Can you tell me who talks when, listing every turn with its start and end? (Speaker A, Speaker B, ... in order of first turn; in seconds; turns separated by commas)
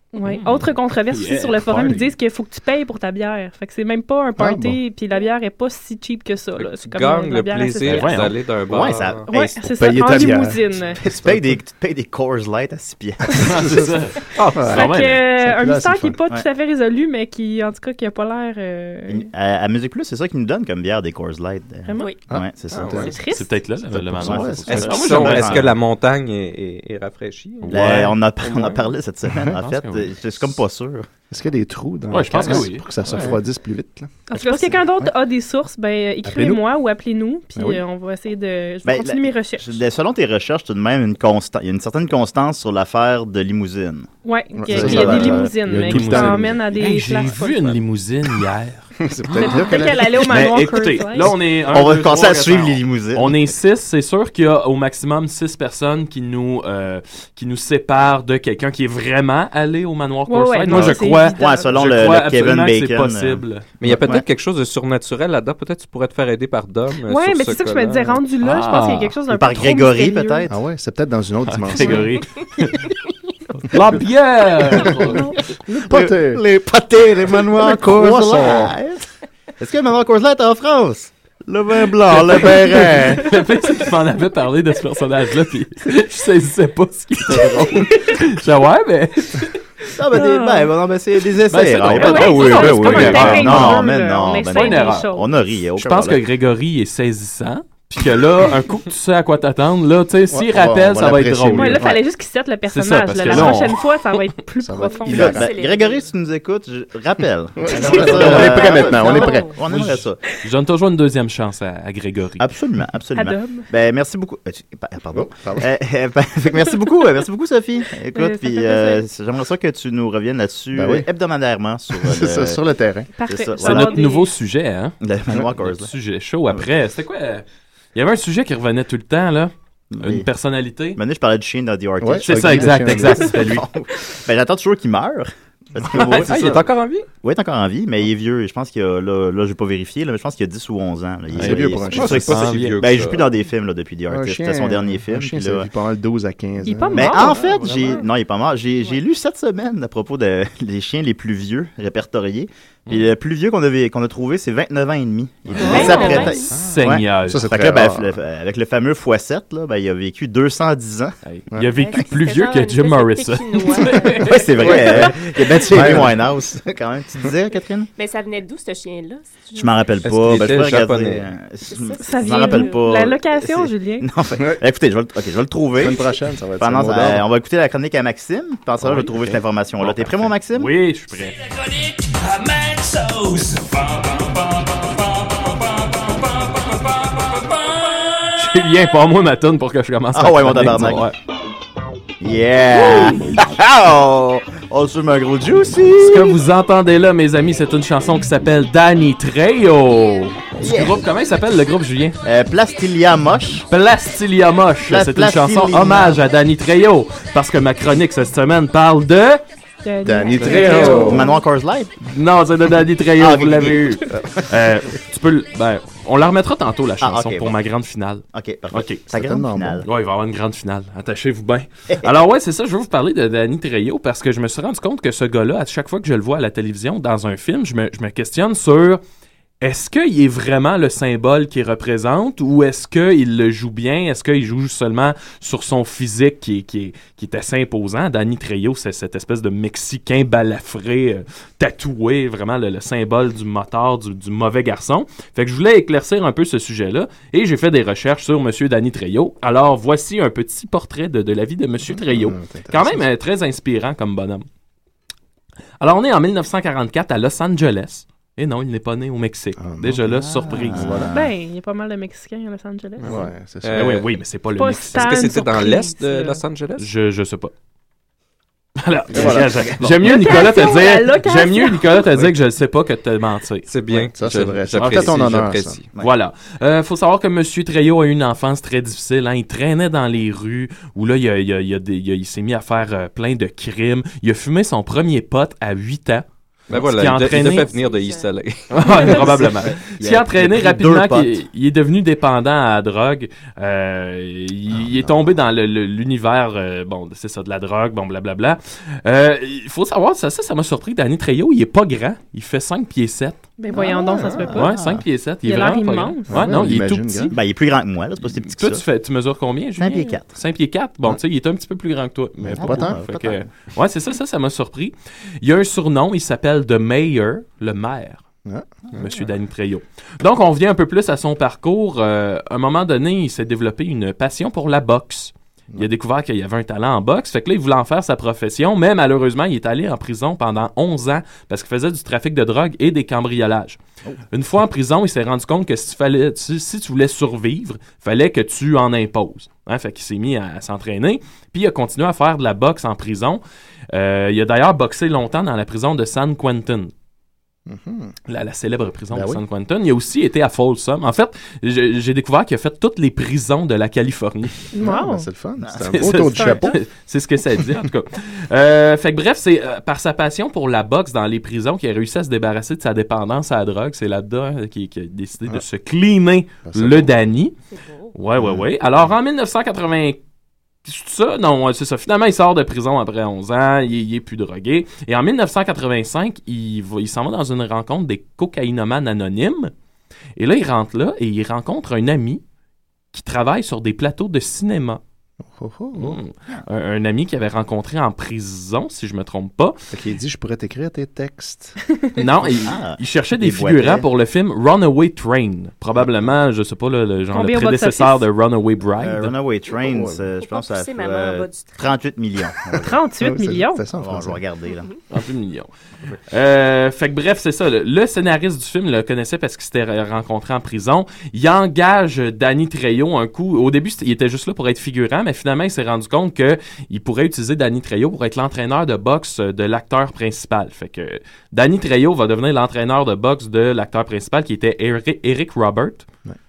Speaker A: 0.1-8.3, Speaker B: 0.2-2.1, Speaker C: 4.4-4.8, Speaker D: 6.6-9.3, Speaker B: 7.8-8.3, Speaker E: 8.7-9.6, Speaker A: 9.3-11.0, Speaker C: 9.8-11.6, Speaker E: 11.0-13.8, Speaker B: 13.4-15.2, Speaker C: 13.5-13.9, Speaker D: 14.4-14.8, Speaker C: 14.5-16.2, Speaker A: 14.7-19.3, Speaker E: 19.1-23.2, Speaker A: 21.9-22.2, Speaker C: 22.3-23.1, Speaker D: 22.7-23.1, Speaker A: 23.0-23.6, Speaker B: 23.3-25.6, Speaker C: 23.9-25.0, Speaker E: 24.1-25.8, Speaker D: 24.7-28.7, Speaker B: 27.6-28.1, Speaker E: 27.7-31.1, Speaker B: 29.6-30.1, Speaker C: 31.3-35.1, Speaker B: 32.1-33.2, Speaker A: 34.3-39.6, Speaker C: 36.2-36.6, Speaker C: 37.5-37.8, Speaker E: 38.8-44.1, Speaker A: 44.2-47.7, Speaker C: 44.5-46.7, Speaker E: 44.7-45.5, Speaker B: 45.8-48.9, Speaker C: 49.0-50.2, Speaker A: 49.4-51.3, Speaker E: 50.3-53.5, Speaker B: 50.3-63.6, Speaker A: 60.3-61.8, Speaker E: 60.7-64.2, Speaker D: 63.8-68.2, Speaker A: 67.0-70.5, Speaker B: 68.4-69.2, Speaker E: 69.3-70.5, Speaker C: 70.5-72.1, Speaker B: 71.5-72.9, Speaker A: 71.8-72.0, Speaker B: 73.6-75.4, Speaker C: 75.7-76.4, Speaker E: 75.9-79.1, Speaker C: 77.3-78.7, Speaker E: 79.6-83.2, Speaker B: 82.1-89.6, Speaker C: 82.3-83.2, Speaker E: 90.0-96.2, Speaker A: 90.1-90.7, Speaker B: 91.5-93.8, Speaker A: 91.9-95.3, Speaker B: 94.5-95.1, Speaker B: 95.8-102.0, Speaker C: 100.3-101.9, Speaker A: 101.5-105.4, Speaker B: 102.7-103.8, Speaker C: 104.6-105.5, Speaker F: 104.9-106.1, Speaker E: 105.1-110.2, Speaker C: 107.6-109.5, Speaker B: 108.1-108.6, Speaker F: 108.3-109.6, Speaker B: 109.7-112.5, Speaker E: 112.4-122.6, Speaker A: 113.1-113.7, Speaker C: 115.1-115.7, Speaker A: 118.1-119.0, Speaker C: 120.7-121.1, Speaker C: 121.9-123.1, Speaker A: 123.2-124.3, Speaker E: 123.3-124.0, Speaker B: 123.6-124.9, Speaker E: 125.0-125.9, Speaker B: 125.6-127.4, Speaker B: 127.9-131.0, Speaker E: 129.9-130.3, Speaker E: 130.9-136.7, Speaker C: 132.0-133.3, Speaker B: 132.2-133.6, Speaker D: 136.0-137.1, Speaker B: 136.1-136.6, Speaker E: 137.2-145.7, Speaker C: 141.3-142.5, Speaker B: 141.4-142.8, Speaker D: 141.9-143.3, Speaker C: 144.1-148.0, Speaker A: 146.6-148.0, Speaker E: 146.9-161.1, Speaker C: 155.5-158.2, Speaker F: 155.6-156.5, Speaker A: 155.6-156.4, Speaker B: 156.5-157.6, Speaker B: 161.2-164.7, Speaker F: 161.7-164.8, Speaker E: 164.1-167.9, Speaker C: 164.6-165.2, Speaker C: 165.7-166.2, Speaker F: 167.9-169.9, Speaker E: 169.6-180.7, Speaker D: 170.0-171.3, Speaker F: 171.7-172.8, Speaker A: 172.0-174.1, Speaker C: 175.8-177.3, Speaker B: 178.8-181.4, Speaker G: 182.2-187.6, Speaker B: 188.3-191.1, Speaker E: 190.1-191.0, Speaker E: 192.2-196.4, Speaker B: 196.0-202.2, Speaker E: 200.6-201.0, Speaker E: 202.2-203.7, Speaker B: 203.7-209.4, Speaker E: 204.8-206.2, Speaker A: 209.8-211.4, Speaker C: 210.0-211.2, Speaker B: 210.4-211.0, Speaker E: 210.4-211.9, Speaker B: 212.0-219.0, Speaker E: 213.2-214.4, Speaker E: 217.0-217.6, Speaker E: 218.3-219.9, Speaker C: 219.1-219.8, Speaker B: 219.8-229.0, Speaker B: 229.6-254.4, Speaker C: 251.8-253.1, Speaker B: 255.8-261.0, Speaker C: 259.6-261.1, Speaker E: 260.2-261.3, Speaker A: 261.1-263.2, Speaker C: 263.0-264.0, Speaker D: 263.6-264.1, Speaker B: 263.7-265.2, Speaker A: 264.6-266.4, Speaker D: 264.9-266.9, Speaker B: 266.8-267.5, Speaker B: 268.8-273.7, Speaker C: 269.1-270.1, Speaker E: 269.1-269.4, Speaker A: 270.0-272.0, Speaker D: 273.7-275.9, Speaker C: 273.9-275.8, Speaker B: 274.7-275.2, Speaker B: 276.0-287.7, Speaker D: 286.7-289.3, Speaker F: 287.7-288.3, Speaker B: 288.7-303.4, Speaker E: 289.0-291.4, Speaker E: 294.7-295.1, Speaker A: 303.6-304.7, Speaker E: 303.7-305.0, Speaker C: 303.8-304.6, Speaker B: 304.5-307.3, Speaker A: 305.4-306.4, Speaker C: 306.3-307.4, Speaker E: 307.3-308.8, Speaker B: 308.2-318.2, Speaker E: 309.8-310.3, Speaker C: 312.4-313.0, Speaker E: 312.5-313.4, Speaker C: 318.4-319.3, Speaker B: 318.9-333.8, Speaker B: 334.3-346.9, Speaker C: 347.7-348.1, Speaker B: 348.3-354.6, Speaker C: 349.1-349.4, Speaker A: 354.7-355.3, Speaker C: 354.8-356.7, Speaker E: 355.6-356.5, Speaker B: 355.9-367.5, Speaker A: 356.3-356.7, Speaker C: 366.6-367.1, Speaker F: 367.7-368.1, Speaker B: 368.1-370.2, Speaker C: 368.4-368.7, Speaker B: 370.8-379.7, Speaker B: 380.4-382.4, Speaker B: 383.1-385.0, Speaker C: 385.4-386.2, Speaker B: 385.9-389.8, Speaker C: 389.9-391.8, Speaker B: 392.1-399.3, Speaker E: 392.6-394.1, Speaker A: 397.3-398.2, Speaker E: 399.0-403.0, Speaker C: 399.8-400.2, Speaker F: 400.4-402.0, Speaker A: 402.8-403.8, Speaker C: 403.2-404.4, Speaker E: 403.9-404.9, Speaker B: 405.1-405.7, Speaker B: 406.3-426.1